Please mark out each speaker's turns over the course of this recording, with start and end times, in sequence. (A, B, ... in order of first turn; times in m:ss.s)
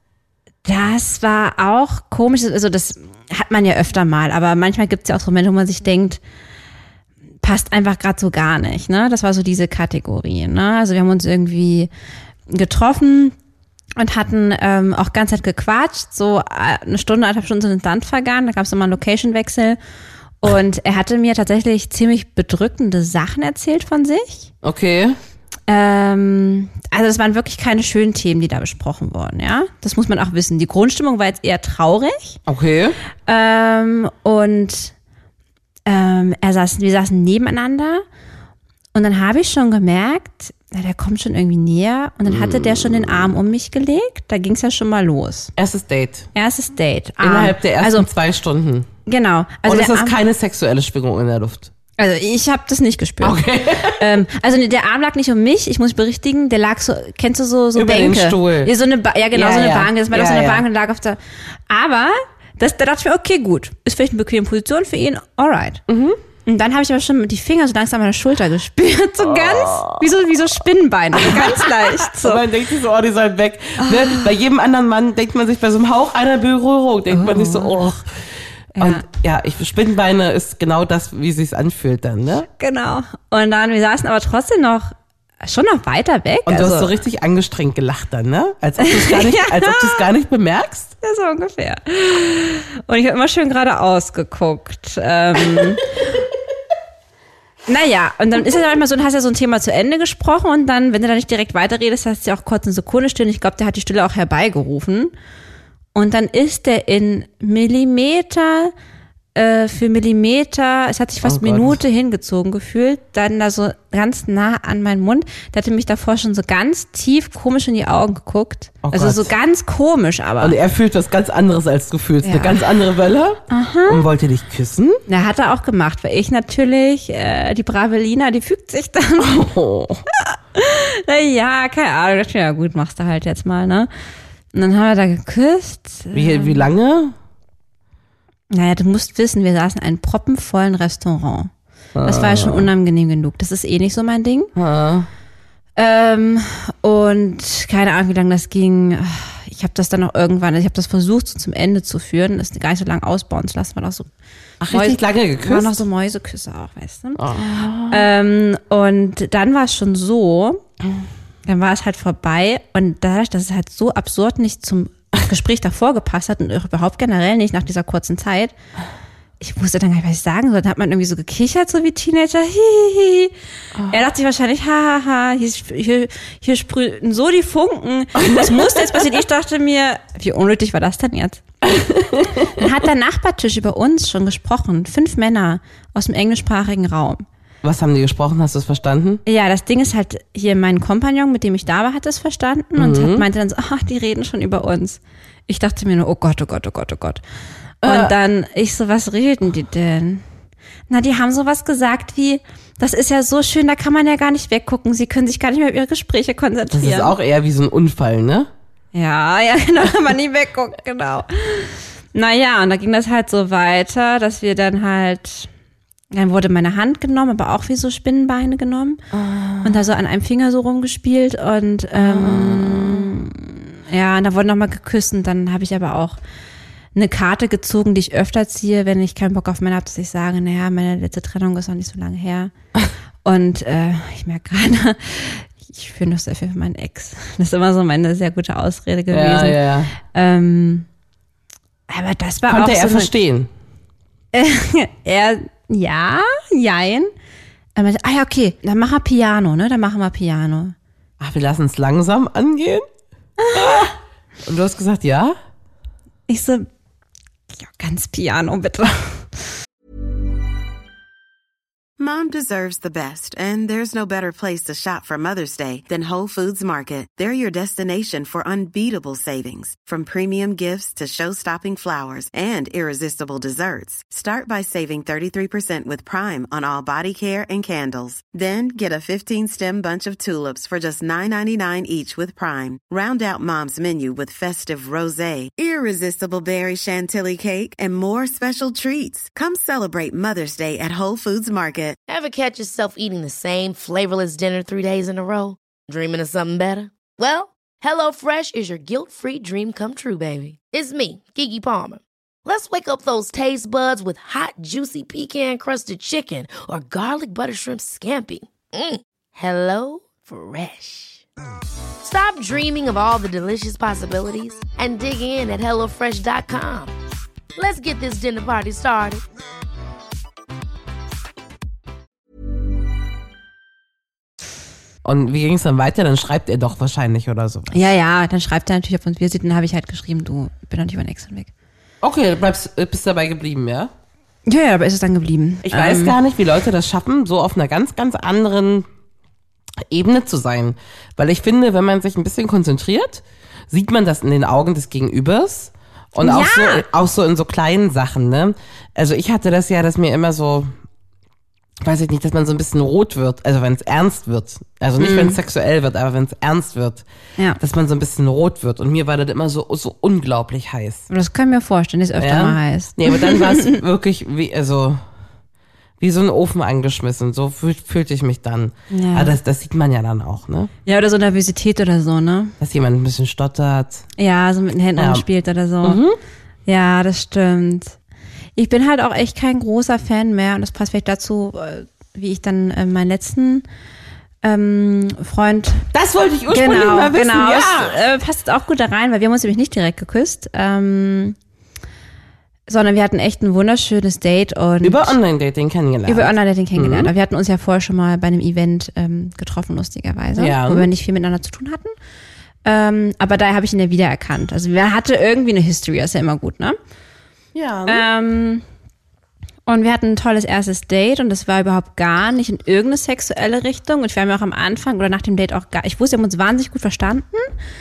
0:00.6-0:06.2 A
0:07.4-0:11.9 A
0:12.5-0:13.4 A
0:14.0-0:19.8 A
0:20.4-0:24.5 A
0:24.6-0:25.2 B
0:25.7-0:32.4 A
0:32.5-0:33.0 B
0:33.3-0:34.9 A
0:35.9-0:38.0 A
0:38.9-0:45.5 A
0:42.3-0:43.3 B
0:45.6-0:46.3 B
0:46.4-0:48.1 A
0:47.2-0:48.9 B
0:49.1-0:50.2 A
0:49.7-0:51.7 B
0:52.0-1:05.8 A
0:53.2-0:54.2 B
0:57.8-0:58.7 B
0:59.3-1:00.6 B
1:05.9-1:06.2 B
1:06.5-1:12.4 A
1:09.2-1:10.1 B
1:11.1-1:22.5 B
1:13.8-1:14.3 A
1:17.1-1:17.8 A
1:18.8-1:19.0 A
1:22.6-1:27.0 A
1:26.5-1:30.9 B
1:28.8-1:30.1 A
1:31.0-1:35.9 A
1:37.7-1:45.1 A
1:46.0-1:48.7 A
1:49.4-2:00.6 A
1:51.2-1:51.8 B
1:58.8-1:59.3 B
2:00.4-2:05.0 B
2:02.2-2:02.6 A
2:03.5-2:04.1 A
2:05.1-2:09.4 A
2:09.2-2:10.0 B
2:10.2-2:13.9 A
2:14.5-2:16.6 A
2:16.1-2:17.2 B
2:18.5-2:21.5 A
2:22.0-2:22.7 B
2:22.0-2:24.5 A
2:24.6-2:25.1 B
2:25.8-2:34.1 A
2:34.6-2:35.8 B
2:34.7-2:37.2 A
2:37.2-2:38.1 B
2:37.9-2:40.6 A
2:41.5-2:48.5 A
2:49.4-2:53.3 A
2:53.8-2:54.0 B
2:53.9-3:01.4 A
2:58.2-2:59.0 B
3:01.6-3:02.6 B
3:02.5-3:07.2 A
3:07.6-3:09.2 B
3:09.3-3:17.2 A
3:12.8-3:13.3 B
3:17.8-3:20.2 A
3:17.8-3:18.1 B
3:20.9-3:27.1 A
3:26.7-3:28.5 B
3:28.9-3:35.5 A
3:36.1-3:39.0 A
3:39.1-3:39.8 B
3:39.6-3:46.2 A
3:41.9-3:43.2 B
3:47.0-3:52.5 A
3:53.2-4:00.9 A
3:59.1-3:59.9 B
4:01.9-4:03.1 A
4:02.5-4:03.5 B
4:04.3-4:07.1 A
4:07.8-4:10.8 A
4:11.2-4:12.8 B
4:13.4-4:13.9 A
4:13.5-4:13.9 B
4:14.4-4:15.4 B
4:16.3-4:16.7 A
4:17.6-4:19.4 A
4:22.0-4:52.0 C
4:52.1-5:11.2 D
5:12.0-5:16.9 D
5:17.6-5:19.2 D
5:25.0-5:27.9 B
5:27.7-5:31.5 A
5:32.0-5:33.9 B
5:34.5-5:36.2 A
5:35.6-5:38.9 B
5:39.8-5:50.8 B
5:46.2-5:46.9 A
5:51.8-5:57.0 B
5:55.0-5:55.4 A
5:57.6-6:01.1 B
6:01.1-6:03.8 A
6:02.2-6:05.0 B
6:06.0-6:10.7 B
6:08.9-6:09.4 A
6:10.9-6:12.5 A
6:12.6-6:14.1 B
6:14.2-6:16.0 A
6:15.0-6:15.3 B
6:15.8-6:16.2 B
6:16.7-6:18.0 A
6:18.6-6:23.7 A
6:24.4-6:25.9 A
6:25.9-6:28.0 B
6:26.5-6:31.4 A
6:32.7-6:35.2 A
6:34.8-6:37.1 B
6:36.1-6:41.9 A
6:40.4-6:40.9 B
6:42.6-6:46.8 A
6:47.5-6:48.1 B
6:47.9-6:48.6 A
6:49.7-6:57.5 A